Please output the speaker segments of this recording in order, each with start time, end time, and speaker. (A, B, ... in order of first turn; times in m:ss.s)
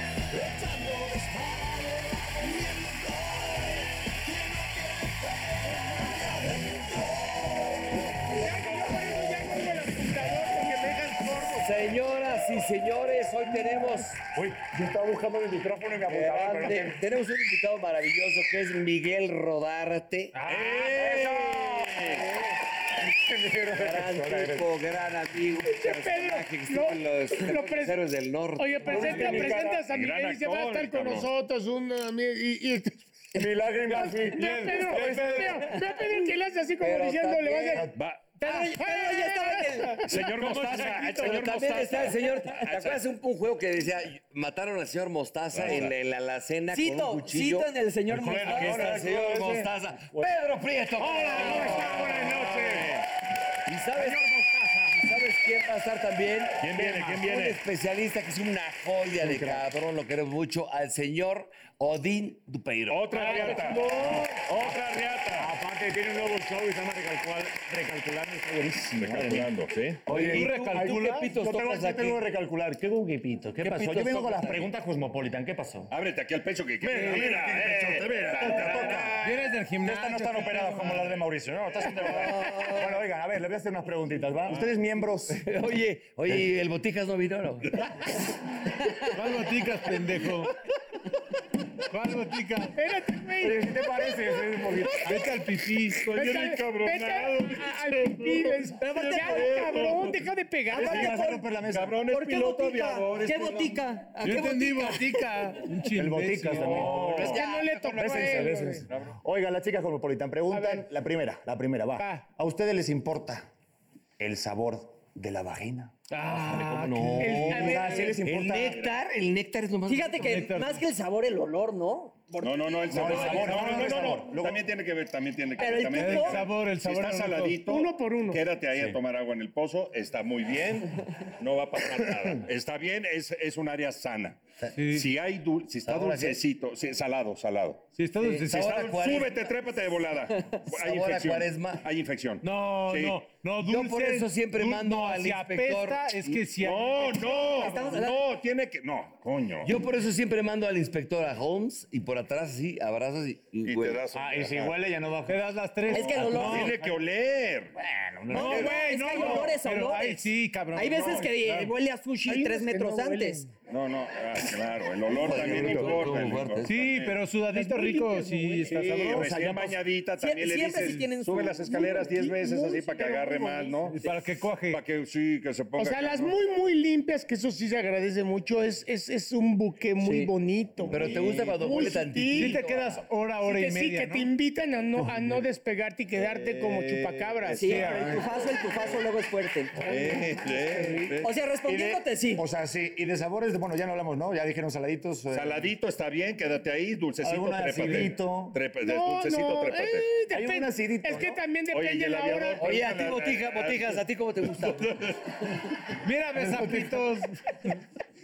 0:00.5-0:01.5 A
0:02.3-0:03.4 A
0:04.3-0:05.1 A
0:08.3-0:11.7 B
0:11.5-0:14.2 A
0:14.2-0:17.0 C
0:16.0-0:21.2 A
0:20.4-0:22.2 D
0:20.8-0:22.0 C
0:22.0-0:22.6 A
0:23.0-0:24.7 C
0:23.7-0:29.6 A
0:25.6-0:33.1 B
0:28.8-0:29.8 C
0:29.8-0:31.3 D
0:33.3-0:35.3 C
0:33.8-0:40.2 B
0:34.2-0:35.8 E
0:36.8-0:37.9 A
0:37.9-0:38.4 D
0:38.4-0:40.0 F
0:40.0-0:43.0 D
0:40.2-0:47.7 A
0:45.5-0:45.9 D
0:46.7-0:48.8 F
0:48.1-0:50.3 C
0:48.3-0:52.0 A
0:51.0-0:52.2 E
0:51.3-0:52.9 B
0:51.7-0:53.0 D
0:53.6-1:03.6 A
0:54.0-0:54.9 E
0:56.6-0:57.6 D
0:56.8-0:57.2 C
0:59.2-0:59.6 C
1:02.9-1:05.5 D
1:03.1-1:04.5 E
1:05.4-1:15.9 C
1:09.0-1:10.0 D
1:10.0-1:12.2 A
1:10.2-1:11.3 E
1:13.6-1:14.7 A
1:15.9-1:19.2 D
1:16.8-1:25.4 C
1:16.9-1:17.2 E
1:18.4-1:21.1 E
1:22.0-1:23.0 A
1:25.3-1:28.1 A
1:29.1-1:30.6 E
1:31.8-1:32.8 E
1:32.7-1:33.7 B
1:33.4-1:35.3 C
1:35.0-1:36.1 E
1:35.9-1:43.8 D
1:36.1-1:41.2 B
1:38.8-1:39.6 F
1:40.7-1:42.0 C
1:41.0-1:41.4 F
1:42.0-1:45.3 F
1:44.2-1:47.2 E
1:45.9-1:53.5 C
1:46.6-1:48.9 B
1:46.7-1:47.4 D
1:47.4-1:47.7 F
1:48.9-1:49.2 D
1:50.5-1:50.8 B
1:54.2-1:56.0 C
1:56.1-1:57.7 E
1:56.2-2:00.5 A
1:57.2-1:58.2 B
1:57.4-1:58.8 C
1:59.9-2:03.9 F
2:00.2-2:00.8 E
2:02.4-2:17.8 D
2:02.9-2:04.7 C
2:05.6-2:06.4 F
2:05.9-2:07.6 E
2:07.6-2:08.4 B
2:14.7-2:15.1 E
2:15.9-2:16.4 C
2:18.0-2:18.6 E
2:18.2-2:19.4 A
2:18.4-2:23.3 D
2:20.6-2:21.8 A
2:22.4-2:27.2 E
2:23.6-2:26.5 A
2:26.6-2:29.7 D
2:27.1-2:28.3 F
2:29.6-2:34.1 A
2:33.6-2:34.8 D
2:34.1-2:35.4 C
2:35.3-2:36.8 E
2:35.9-2:36.8 F
2:35.9-2:37.7 D
2:36.1-2:36.8 A
2:37.8-2:39.5 C
2:38.3-2:41.7 E
2:38.3-2:43.4 F
2:42.2-2:43.5 B
2:43.7-2:47.2 D
2:45.1-2:46.8 A
2:45.3-2:46.2 C
2:46.6-2:49.3 E
2:47.5-2:48.9 B
2:49.0-2:54.0 D
2:49.0-2:49.8 C
2:50.2-2:54.0 F
2:50.6-2:51.1 E
2:53.9-2:54.8 E
2:54.6-2:56.4 D
2:55.8-3:02.6 B
3:00.0-3:00.3 A
3:00.8-3:03.0 A
3:00.9-3:01.5 D
3:02.3-3:04.3 E
3:03.4-3:08.0 B
3:06.1-3:08.4 D
3:07.5-3:10.5 F
3:07.6-3:08.2 E
3:09.8-3:11.3 D
3:11.2-3:12.4 F
3:11.6-3:15.7 C
3:15.3-3:20.2 D
3:17.2-3:18.6 C
3:18.7-3:22.7 B
3:20.3-3:21.4 C
3:21.7-3:25.6 D
3:22.6-3:24.9 A
3:25.9-3:27.7 E
3:26.5-3:27.0 C